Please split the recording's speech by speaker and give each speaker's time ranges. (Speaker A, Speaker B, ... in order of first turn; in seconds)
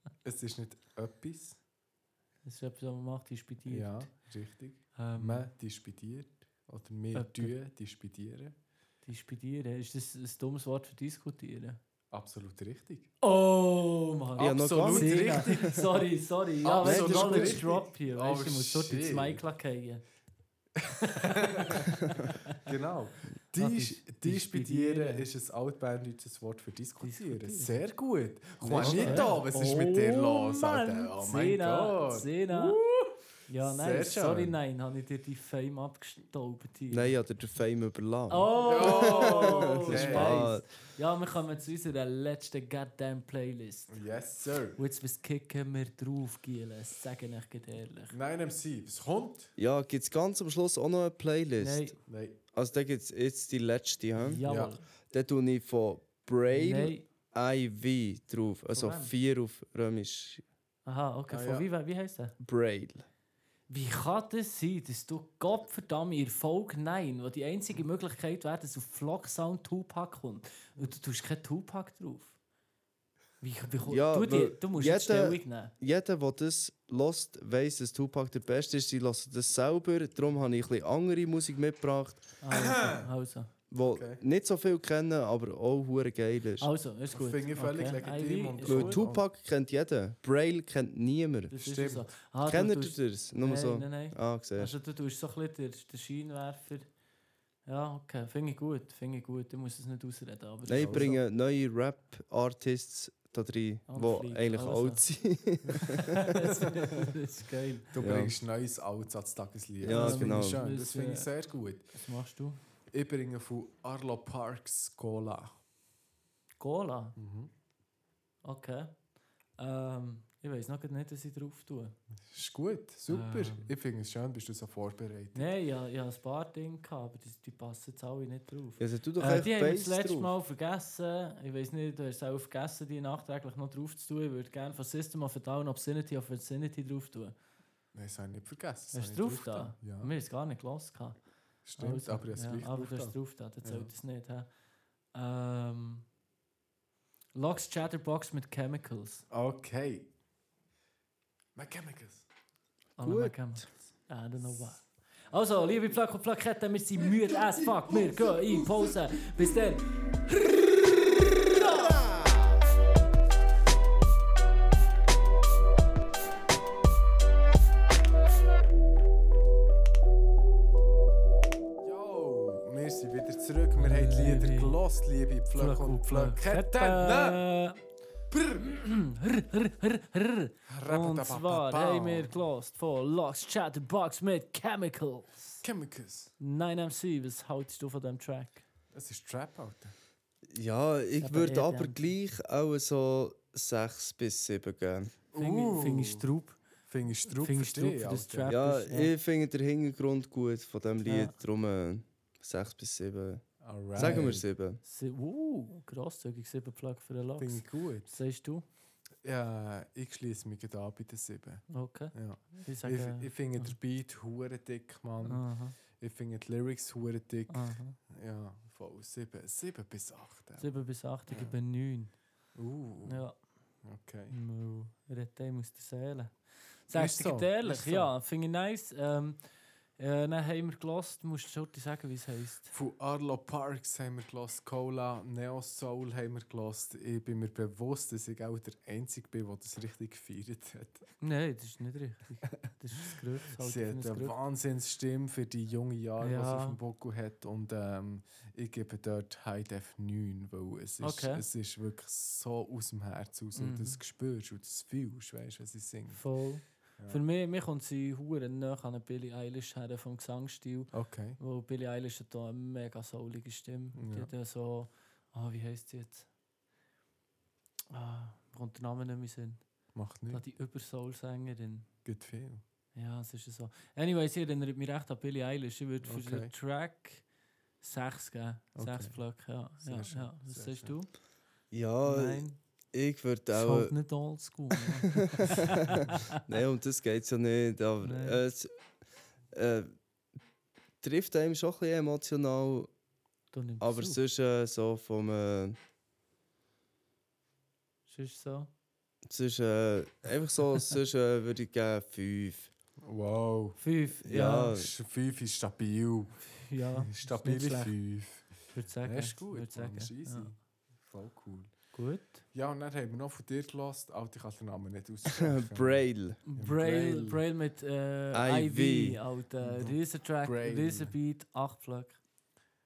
Speaker A: 0.2-1.6, 3.7-8.6, 12.1-13.1, 14.4-15.7, 16.6-19.4, 20.8-34.6, 38.6-40.5, 43.9-44.8, 48.1-49.5, 52.1-52.4, 54.5-54.8, 61.3-61.7, 82.5-83.1, 83.9-84.2, 87.1-89.2, 91.6-92.1, 100.7-101.2, 107.9-111.9, 112.9-115.6, 117.2-117.5, 122.3-125.5, 137.9-140.1, 141.7-143.9, 149.3-150.1, 151.6-152.3, 157.2-159.0, 171.8-177.4, 178.3-178.8, 180.7-182.3, 185.6-186.3, 188.9-189.9, 195.3-196.2, 196.9-198.5, 203.6-204.5, 207.4-208.1, 209.2-220.7, 221.3-221.6, 222.6-223.3, 223.8-224.4, 226.9-228.1, 232.7-241.0, 243.5-256.2, 260.9-261.4, 264.0-264.3, 269.9-270.4, 272.1-272.6, 276.0-276.5, 278.8-279.2, 279.8-281.0, 303.0-303.8, 304.6-311.9, 312.5-317.4, 319.6-321.1
Speaker B: 2.5-4.1, 5.0-5.5, 7.1-7.5, 9.1-11.8, 13.2-20.0, 21.1-22.6, 23.6-25.3, 27.0-27.8, 28.7-32.8, 33.5-37.1, 38.3-43.9, 44.8-48.2, 51.6-52.0, 54.2-54.8, 56.5-57.0, 58.7-59.1, 60.9-62.4, 63.7-72.4, 73.4-75.7, 82.4-83.5, 86.6-89.0, 91.5-96.9, 97.7-101.2, 103.9-105.0, 105.8-107.9, 109.9-111.3, 111.9-112.6, 116.6-117.2, 118.4-119.0, 119.6-122.0, 123.1-123.7, 125.3-137.3, 138.9-141.2, 141.8-144.5, 145.1-146.1, 147.3-149.3, 153.0-160.7, 161.6-161.9, 173.8-174.8, 175.5-177.8, 178.6-185.6, 186.4-188.6, 191.2-192.0, 195.3-196.6, 197.3-199.1, 201.0-201.3, 204.0-208.7, 211.7-213.7, 215.2-215.8, 217.5-218.0, 220.6-222.1, 223.1-223.4, 224.3-229.4, 230.0-232.7, 241.2-244.3, 246.2-246.8, 251.0-251.4, 253.6-254.0, 256.1-266.3, 267.9-271.9, 272.9-277.2, 277.8-281.1, 282.0-282.6, 283.5-286.4, 288.0-288.4, 293.5-294.2, 298.1-298.7, 303.8-304.7, 306.5-308.0, 308.7-310.5, 311.9-312.4, 316.4-322.2
Speaker C: 14.4-15.8, 16.8-17.6, 28.6-29.4, 36.9-40.6, 49.6-52.0, 52.5-54.4, 55.1-60.4, 62.4-63.1, 73.9-82.4, 83.7-86.7, 88.7-91.5, 92.5-94.7, 100.7-106.3, 108.0-108.3, 109.8-110.6, 128.8-130.3, 153.0-153.7, 190.5-195.2, 198.5-204.8, 281.7-284.0, 284.7-285.3, 286.2-288.7, 289.5-289.9, 291.0-292.9, 293.8-295.8, 299.3-302.7, 304.2-304.9, 315.3-316.4, 318.3-319.2